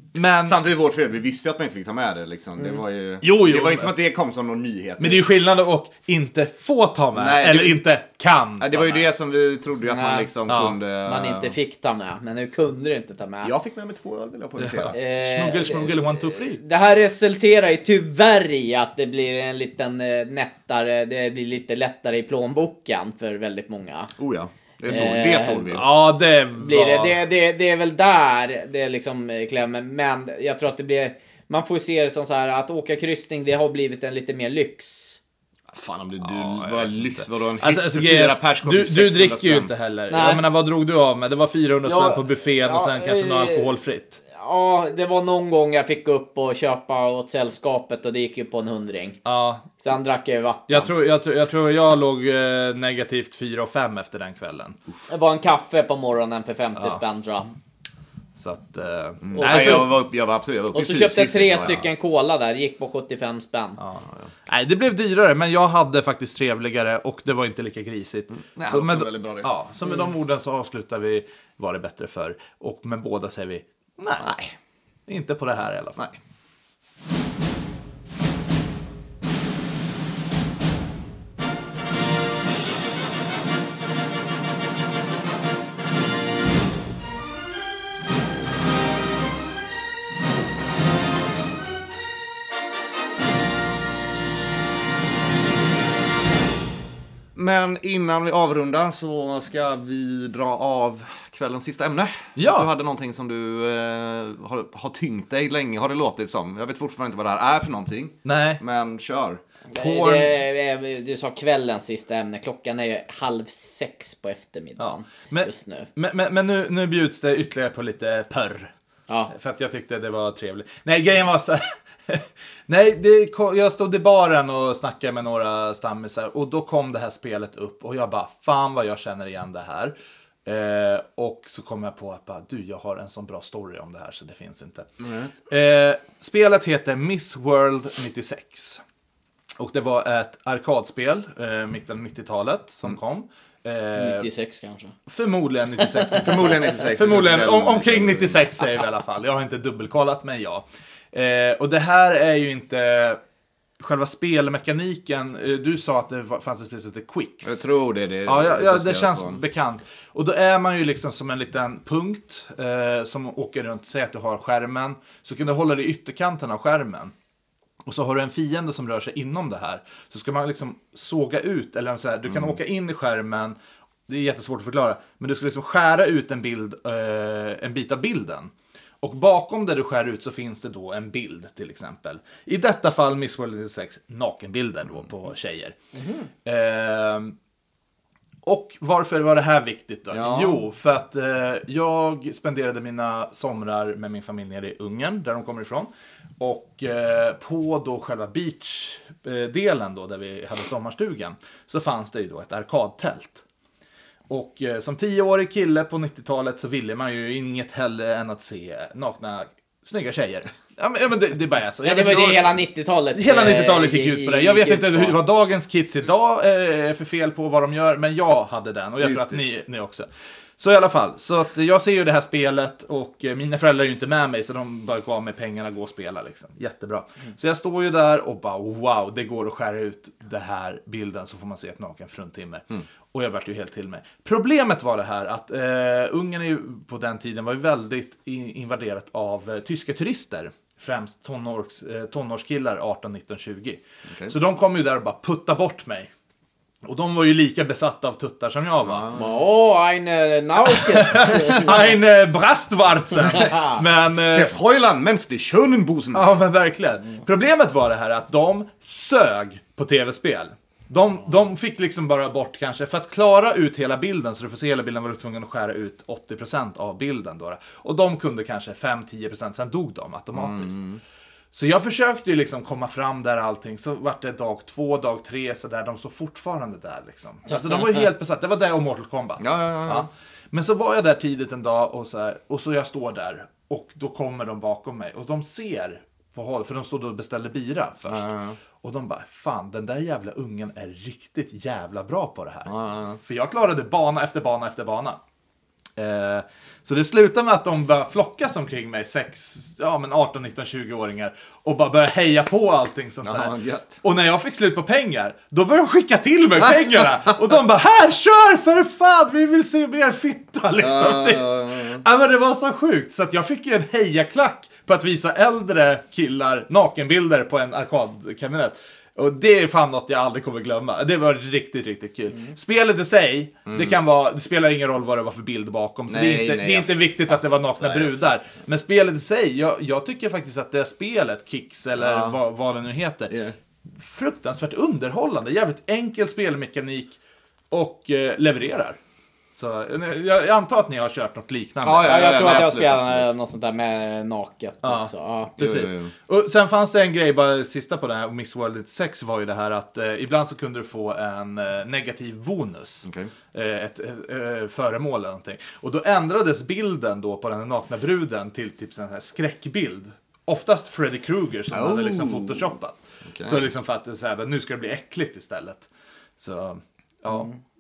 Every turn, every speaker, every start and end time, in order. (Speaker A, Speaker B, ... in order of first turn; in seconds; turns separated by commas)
Speaker A: 0.1-0.6, Speaker B: 0.4-5.2, Speaker C: 2.6-2.8, Speaker A: 3.2-3.9, Speaker A: 5.0-9.1, Speaker B: 7.2-7.8, Speaker B: 8.6-11.6, Speaker C: 9.9-10.3, Speaker A: 10.5-10.8, Speaker C: 11.0-13.5, Speaker B: 13.4-15.0, Speaker A: 14.6-16.6, Speaker C: 14.9-24.1, Speaker B: 24.2-25.9, Speaker C: 24.9-25.9, Speaker A: 25.7-27.1, Speaker C: 26.6-35.2, Speaker B: 35.7-39.7, Speaker A: 36.2-44.2, Speaker C: 40.1-40.5, Speaker C: 41.9-43.8, Speaker C: 44.3-49.2, Speaker A: 49.2-49.7, Speaker C: 49.8-50.9, Speaker A: 50.7-54.8, Speaker C: 55.1-57.5, Speaker A: 56.8-57.0, Speaker A: 58.4-59.9, Speaker B: 59.2-61.9, Speaker C: 59.4-59.9, Speaker C: 60.7-63.8, Speaker A: 63.8-74.3, Speaker B: 64.0-64.3, Speaker B: 68.3-69.5, Speaker B: 74.2-74.5, Speaker A: 75.1-76.1, Speaker B: 97.3-109.4, Speaker A: 102.4-102.7, Speaker A: 108.2-108.6, Speaker C: 109.7-115.9, Speaker A: 109.8-110.3, Speaker A: 114.8-118.7, Speaker A: 119.3-129.9, Speaker A: 130.4-134.9, Speaker B: 135.0-135.3, Speaker A: 135.5-138.8, Speaker A: 139.6-144.3, Speaker C: 144.0-144.9, Speaker A: 145.1-153.2, Speaker B: 146.2-148.5, Speaker A: 153.8-157.6, Speaker B: 157.4-159.4, Speaker A: 158.2-167.1, Speaker A: 167.9-173.6, Speaker B: 172.3-172.6, Speaker A: 174.1-178.5, Speaker A: 179.0-185.8, Speaker C: 185.9-186.3, Speaker A: 186.4-187.3, Speaker A: 188.4-203.4, Speaker B: 190.1-190.6, Speaker A: 204.3-212.6, Speaker C: 211.8-215.2, Speaker A: 213.1-220.1, Speaker B: 219.0-219.6, Speaker A: 220.6-246.1, Speaker B: 244.1-244.3, Speaker A: 246.8-249.1, Speaker B: 248.8-249.4, Speaker C: 249.1-252.0, Speaker A: 250.8-254.5, Speaker C: 253.3-253.8, Speaker B: 254.3-256.4, Speaker A: 256.1-270.8, Speaker B: 270.3-271.0, Speaker A: 271.5-288.3, Speaker C: 277.5-278.1, Speaker B: 279.4-280.1, Speaker B: 288.1-288.6, Speaker A: 288.8-295.2, Speaker B: 292.7-293.2, Speaker A: 296.0-333.4, Speaker B: 303.2-304.0, Speaker B: 306.9-307.3, Speaker B: 310.8-312.1, Speaker B: 323.7-324.0, Speaker B: 326.1-328.2, Speaker B: 332.0-332.4, Speaker B: 333.3-333.6, Speaker A: 333.9-337.2, Speaker A: 337.7-339.0, Speaker A: 339.5-342.4, Speaker B: 341.8-343.3, Speaker C: 342.0-345.5, Speaker A: 344.8-367.5, Speaker B: 345.6-346.1, Speaker B: 353.0-353.3, Speaker B: 361.7-363.7, Speaker C: 367.3-367.6